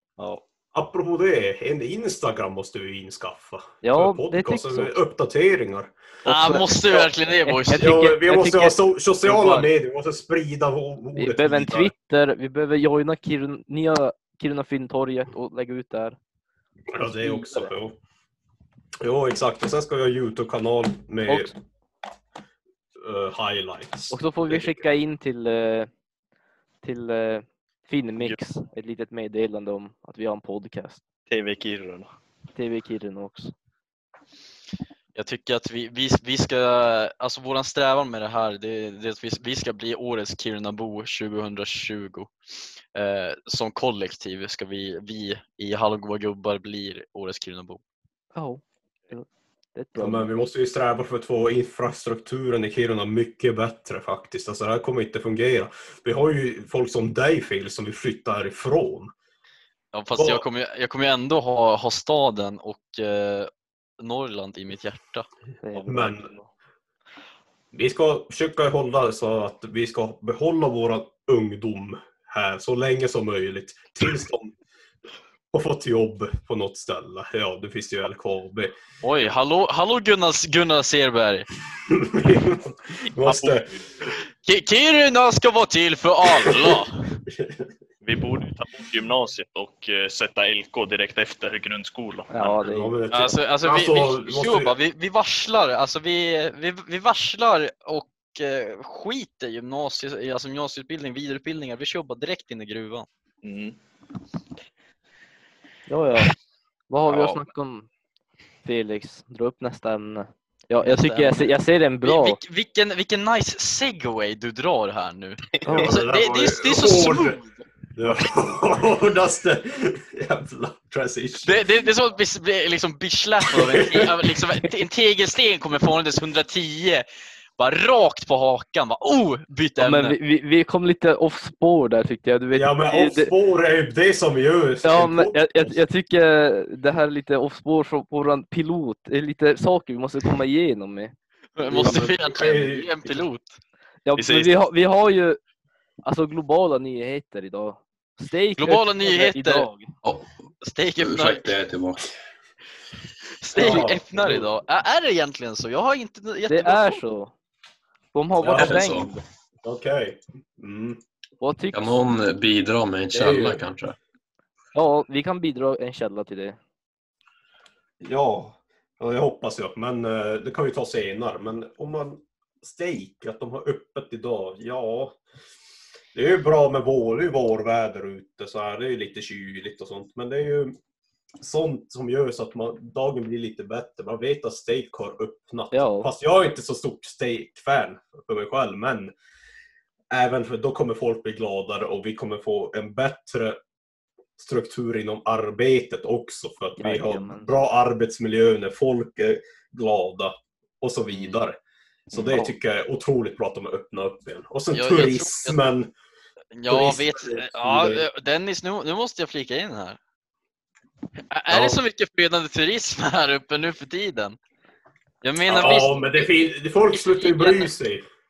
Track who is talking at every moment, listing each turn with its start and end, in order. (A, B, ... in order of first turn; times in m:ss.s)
0:00.2-0:00.4 A
0:00.7-0:05.9 B
0:03.8-0:04.9 C
0:06.2-0:09.7 C
0:06.3-0:08.2 D
0:07.7-0:11.9 B
0:11.2-0:16.2 C
0:16.9-0:18.0 B
0:17.0-0:17.7 C
0:19.0-0:21.5 B
0:21.3-0:21.5 C
0:23.0-0:24.8 B
0:24.1-0:25.9 C
0:26.8-0:31.0 C
0:31.3-0:32.1 A
0:32.6-0:33.5 C
0:35.2-0:42.3 D
0:42.9-0:47.8 D
0:48.3-0:50.3 C
0:50.0-0:59.1 B
0:59.9-1:05.3 D
1:00.2-1:00.4 B
1:05.6-1:06.5 C
1:05.8-1:06.3 B
1:07.7-1:14.6 B
1:15.5-1:18.7 B
1:19.0-1:21.5 D
1:21.9-1:23.7 B
1:23.2-1:23.8 A
1:24.4-1:27.1 D
1:26.3-1:27.6 B
1:28.0-1:32.6 A
1:32.3-1:33.0 C
1:32.6-1:34.7 B
1:33.1-1:43.1 D
1:43.4-1:43.8 A
1:45.9-1:46.3 C
1:46.9-1:47.9 C
1:47.1-1:47.4 A
1:48.6-1:52.4 C
1:50.8-1:57.5 D
1:55.7-1:55.9 C
1:55.8-1:57.4 B
1:57.9-2:01.6 B
2:01.4-2:07.0 D
2:03.5-2:04.1 B
2:07.6-2:10.2 D
2:09.8-2:13.3 C
2:12.5-2:15.8 B
2:14.8-2:21.2 C
2:21.6-2:23.6 D
2:21.7-2:23.2 B
2:24.0-2:25.4 C
2:24.2-2:24.5 A
2:26.0-2:29.9 C
2:28.6-2:29.7 D
2:30.0-2:30.3 E
2:30.6-2:31.5 D
2:31.0-2:32.1 E
2:33.4-2:37.0 D
2:33.5-2:34.5 B
2:36.5-2:37.3 C
2:38.1-2:39.2 C
2:38.4-2:38.8 B
2:38.6-2:39.1 E
2:39.6-2:41.0 B
2:41.4-2:41.9 C
2:41.7-2:44.0 E
2:43.1-2:43.6 B
2:44.8-2:46.6 C
2:48.0-2:55.2 B
2:56.1-3:00.8 B
3:01.4-3:09.1 B
3:05.7-3:06.1 C
3:10.1-3:13.6 B
3:14.4-3:21.6 B
3:16.8-3:17.5 C
3:22.1-3:25.9 B
3:24.7-3:25.6 D
3:26.6-3:30.0 D
3:26.7-3:28.1 B
3:31.3-3:34.4 D
3:31.5-3:31.8 B
3:35.2-3:37.7 D
3:35.5-3:38.0 B